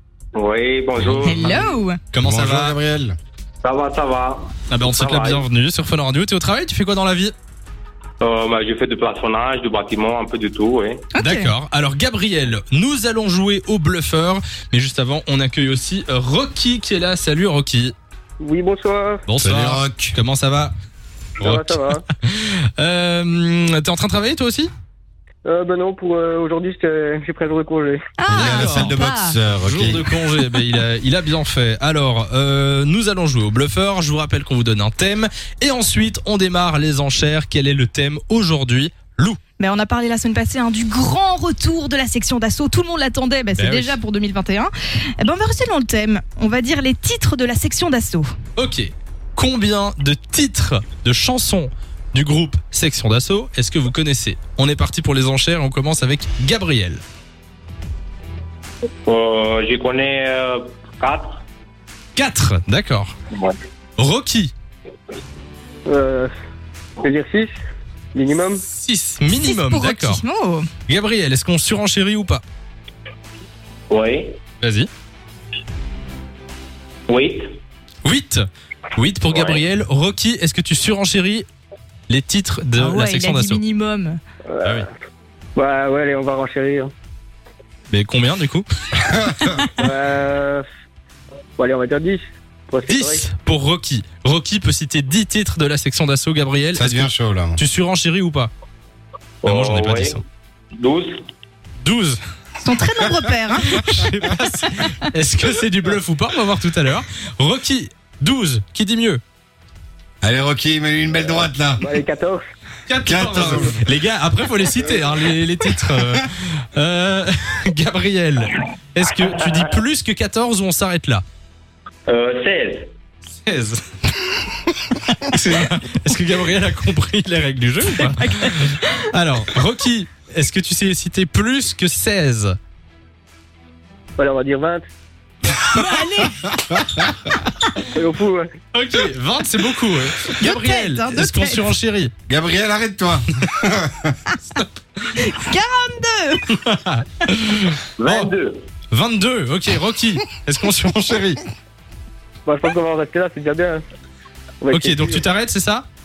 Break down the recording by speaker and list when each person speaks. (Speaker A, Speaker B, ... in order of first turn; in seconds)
Speaker A: 0.3-1.8, 3.6-5.4, 8.2-11.1, 59.1-61.4, 73.9-74.4, 77.1-77.5, 79.3-79.6, 99.4-100.2, 100.8-101.2, 122.1-122.9, 148.0-148.6
Speaker B: 1.0-2.8, 4.7-7.3, 11.2-17.9, 19.3-20.7, 21.4-24.7, 28.3-28.9, 29.6-39.4, 43.5-44.0, 48.5-57.0, 62.1-63.1, 64.0-64.5, 68.7-70.2, 70.9-72.4, 74.6-74.9, 78.0-81.5, 82.1-83.6, 87.9-88.7, 92.9-98.5, 99.4-100.2, 101.8-102.2, 103.7-109.2, 112.9-121.2, 123.3-123.8, 125.1-132.6, 138.7-142.1, 146.5-148.3, 148.9-151.4, 154.7-155.9
Speaker C: 1.2-2.0, 11.1-11.5, 28.2-29.4, 39.6-48.3, 69.3-70.7, 82.8-84.2, 102.6-104.1, 128.0-129.0, 135.6-136.6, 140.4-141.7, 145.2-146.5
Speaker D: 2.2-3.2, 19.4-20.2, 28.3-30.1, 89.0-89.6, 96.7-97.6, 110.2-111.9, 113.0-113.8, 142.3-144.2
Speaker E: 18.4-19.2, 21.4-22.0, 25.5-28.0, 65.9-66.3, 67.0-67.5, 68.1-68.6, 85.5-86.9, 89.8-90.6, 91.6-93.2, 111.8-112.4, 134.2-134.8, 137.9-138.5, 152.5-153.8, 154.6-155.2